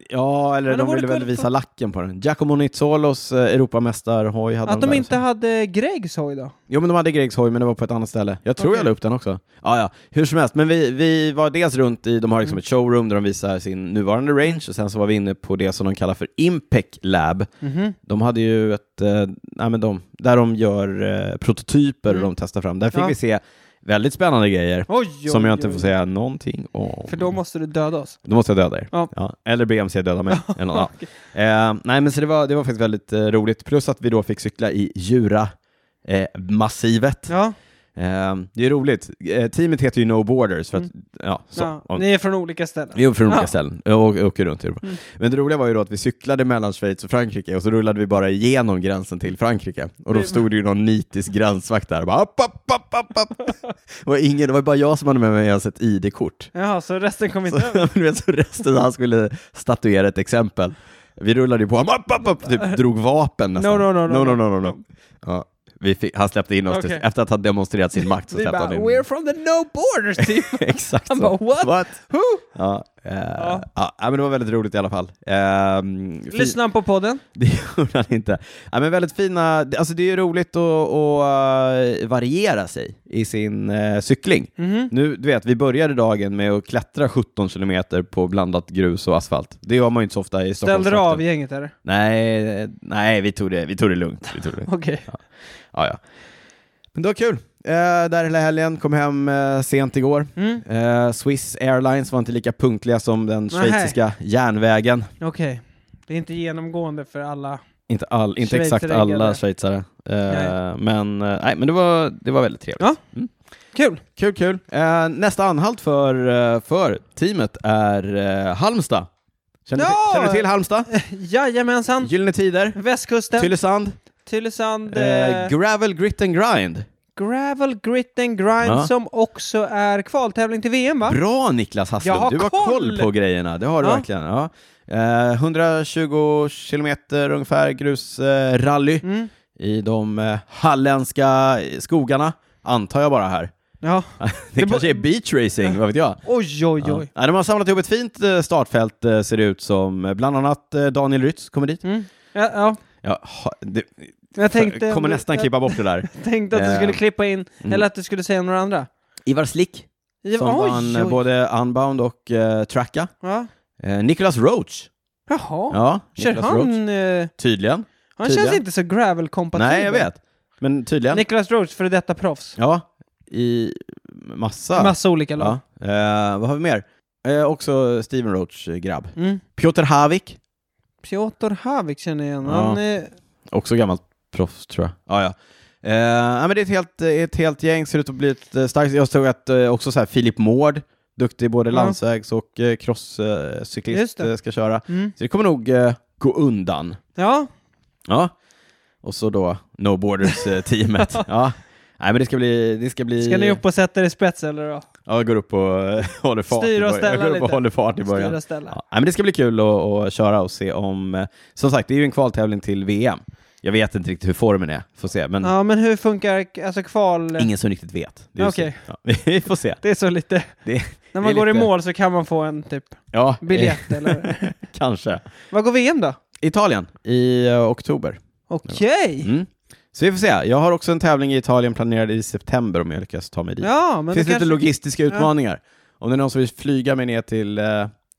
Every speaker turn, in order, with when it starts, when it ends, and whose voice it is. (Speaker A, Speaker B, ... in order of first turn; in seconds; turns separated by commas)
Speaker A: 0.1-5.1, Speaker B: 0.7-1.5, Speaker B: 4.7-6.5, Speaker A: 6.7-17.5, Speaker B: 8.6-8.9, Speaker B: 17.6-18.0, Speaker A: 18.1-27.3, Speaker B: 24.9-25.9, Speaker B: 27.1-28.2, Speaker A: 28.2-35.5, Speaker B: 30.3-31.1, Speaker A: 36.0-37.3, Speaker B: 37.3-37.5, Speaker A: 38.0-42.0, Speaker B: 41.6-43.5, Speaker A: 42.9-56.5, Speaker B: 50.1-50.4, Speaker B: 56.5-57.8, Speaker A: 57.5-69.0, Speaker B: 63.6-64.8, Speaker B: 66.7-67.0, Speaker B: 68.3-72.4, Speaker A: 70.2-72.0, Speaker A: 72.5-76.6, Speaker B: 73.4-73.7, Speaker B: 76.3-77.2, Speaker A: 77.3-91.2, Speaker B: 84.6-84.9, Speaker B: 90.6-91.7, Speaker A: 91.8-95.2, Speaker B: 94.6-95.0, Speaker A: 95.7-96.0, Speaker A: 96.9-105.1, Speaker B: 100.4-100.6, Speaker B: 103.5-104.0, Speaker B: 105.2-107.6, Speaker A: 107.9-113.3, Speaker B: 108.4-109.4, Speaker B: 110.3-110.5, Speaker B: 113.7-114.0, Speaker A: 114.2-119.1, Speaker A: 119.7-120.9, Speaker B: 119.8-122.1, Speaker A: 122.0-122.8, Speaker B: 122.8-123.5, Speaker A: 123.4-124.0, Speaker B: 124.2-125.5, Speaker A: 124.9-126.9, Speaker B: 127.2-131.2, Speaker A: 128.6-128.9, Speaker A: 131.1-143.5, Speaker B: 132.0-133.1, Speaker B: 139.0-139.3, Speaker B: 143.8-145.0, Speaker A: 144.2-146.2, Speaker B: 146.2-147.1, Speaker A: 146.8-151.8, Speaker B: 151.8-152.8, Speaker A: 153.0-157.0, Speaker B: 154.4-158.9, Speaker A: 159.3-163.1, Speaker B: 160.2-161.2, Speaker B: 163.2-163.5, Speaker A: 163.8-164.9, Speaker B: 165.3-167.3, Speaker A: 165.7-166.8, Speaker A: 167.4-168.6, Speaker B: 168.2-170.1, Speaker A: 169.6-171.2, Speaker B: 171.1-172.6, Speaker A: 172.6-180.4, Speaker B: 174.8-175.6, Speaker B: 179.2-179.4, Speaker B: 181.0-183.1, Speaker A: 182.4-182.8, Speaker A: 183.5-197.0, Speaker B: 191.7-192.0, Speaker B: 193.9-194.3, Speaker B: 194.9-195.1, Speaker B: 197.2-197.5, Speaker A: 198.1-198.3, Speaker A: 199.0-203.6, Speaker B: 203.2-204.9, Speaker A: 205.1-215.5, Speaker B: 206.5-208.7, Speaker B: 215.4-217.5, Speaker A: 217.4-219.8, Speaker B: 218.4-218.8, Speaker B: 219.8-220.5, Speaker A: 220.6-221.7, Speaker B: 221.1-224.5, Speaker A: 223.1-225.2, Speaker B: 225.5-226.2, Speaker A: 226.4-237.9, Speaker B: 228.5-229.3, Speaker B: 233.6-235.3